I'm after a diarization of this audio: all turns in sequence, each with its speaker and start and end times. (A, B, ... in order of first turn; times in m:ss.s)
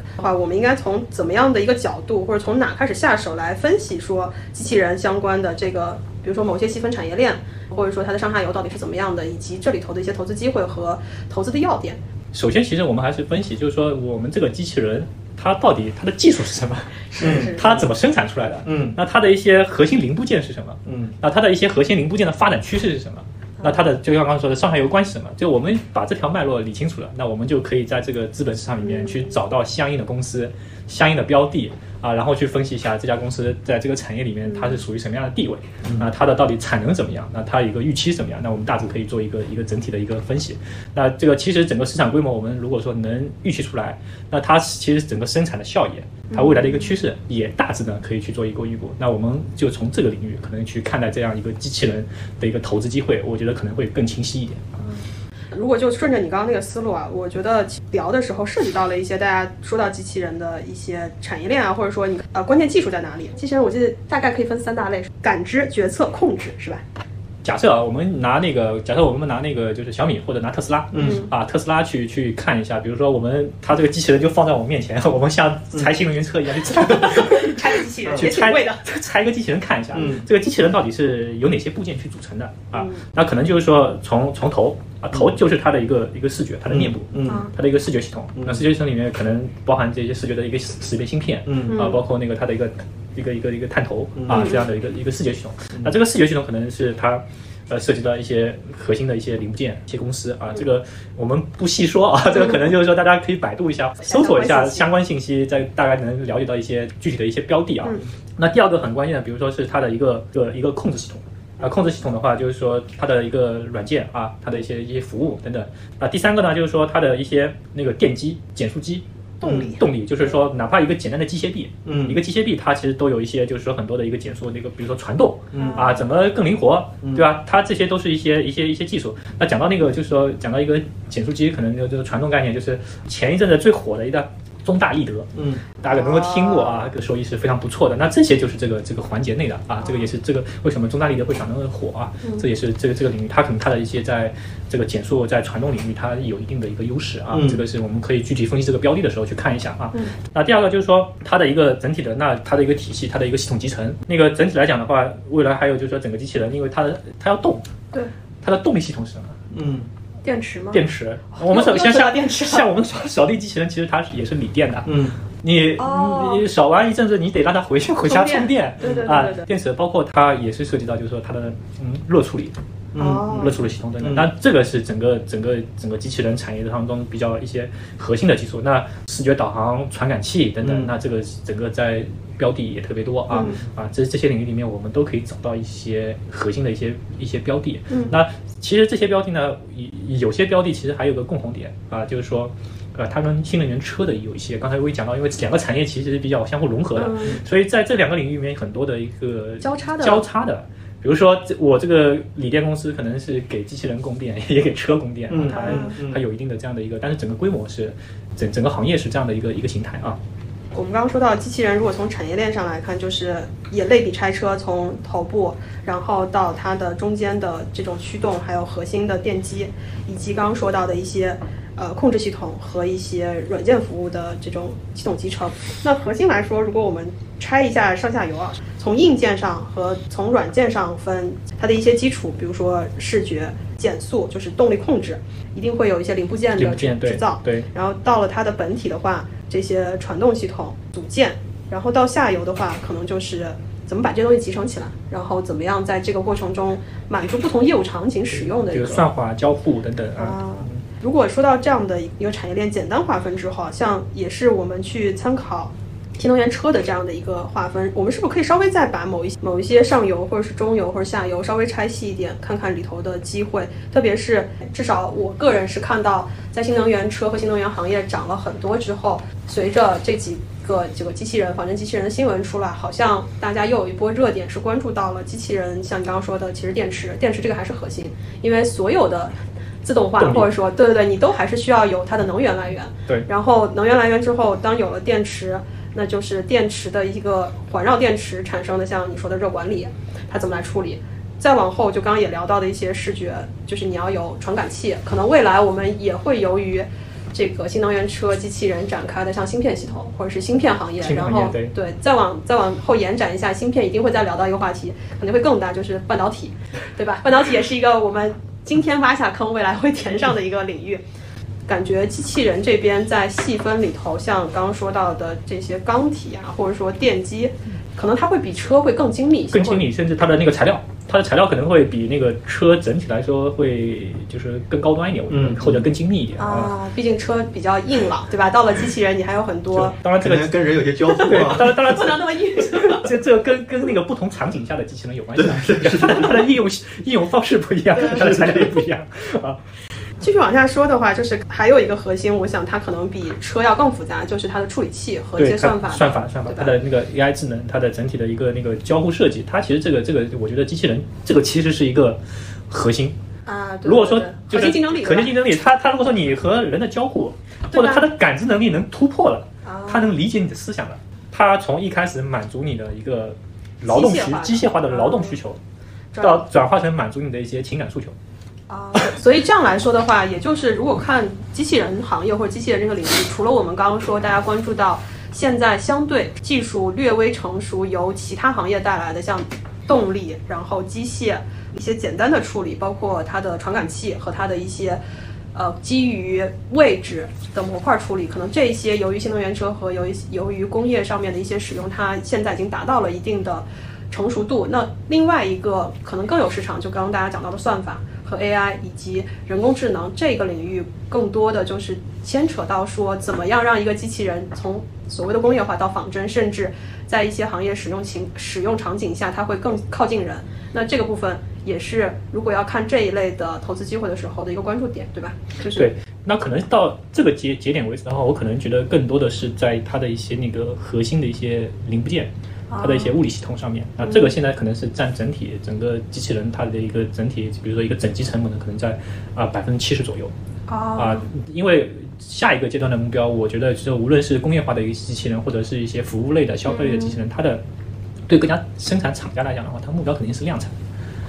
0:00.2-0:12.0 A
0:12.3-0:54.7 B
0:17.2-0:17.6 A
0:17.2-0:17.8 C
0:18.6-0:19.0 C
0:20.8-0:21.1 C
0:28.8-0:29.3 A
0:34.5-0:34.8 A
0:46.3-0:47.0 A
0:54.8-1:06.8 A
1:07.4-2:37.6 B
1:10.9-1:11.3 C
1:11.0-1:11.3 A
1:17.0-1:18.8 A
1:19.9-1:20.3 C
1:22.7-1:23.0 A
1:26.7-1:27.5 C
1:27.3-1:27.5 A
1:28.4-1:28.7 C
1:31.5-1:31.9 C
1:31.7-1:32.0 A
1:34.2-1:34.5 C
1:34.3-1:34.6 A
1:44.0-1:44.9 A
1:59.4-1:59.8 A
1:59.4-1:59.7 C
2:01.8-2:02.2 C
2:05.5-2:05.8 C
2:05.5-2:06.0 A
2:07.0-2:07.3 C
2:15.3-2:15.6 C
2:15.9-2:16.9 A
2:27.3-2:27.6 C
2:38.4-2:39.4 B
2:39.5-2:39.9 C
2:40.2-2:40.8 A
2:40.7-2:52.5 B
2:41.3-2:42.7 A
2:44.8-2:45.1 C
2:45.8-2:46.4 A
2:48.0-2:49.5 A
2:52.9-2:53.3 C
2:53.0-2:53.6 A
2:53.2-3:30.2 B
2:54.0-2:54.3 C
3:00.6-3:00.9 C
3:03.3-3:03.6 A
3:07.9-3:08.2 A
3:16.9-3:17.4 A
3:19.6-3:20.2 A
3:25.3-3:26.2 C
3:25.5-3:26.0 A
3:30.7-4:09.0 A
3:56.6-3:57.7 B
4:08.7-4:10.8 B
4:10.2-5:11.0 A
4:40.2-4:40.5 B
5:01.0-5:01.7 B
5:11.7-5:19.8 A
5:19.5-5:26.7 B
5:25.3-5:25.9 C
5:26.4-5:30.0 A
5:29.9-5:39.6 B
5:30.2-5:31.8 C
5:31.5-5:33.1 A
5:35.4-5:36.2 C
5:38.1-5:38.7 C
5:40.2-5:46.7 A
5:45.4-5:53.1 B
5:53.4-5:55.4 A
5:53.8-6:05.6 B
5:57.7-5:58.1 A
5:59.6-6:00.1 A
6:03.8-6:05.4 A
6:06.1-6:06.4 A
6:06.2-6:08.1 B
6:08.7-6:25.0 A
6:25.5-6:55.9 A
6:55.7-7:10.3 B
7:02.7-7:03.2 A
7:04.0-7:04.3 A
7:10.7-7:11.3 A
7:11.0-7:17.6 B
7:16.6-7:17.2 A
7:18.3-7:20.7 B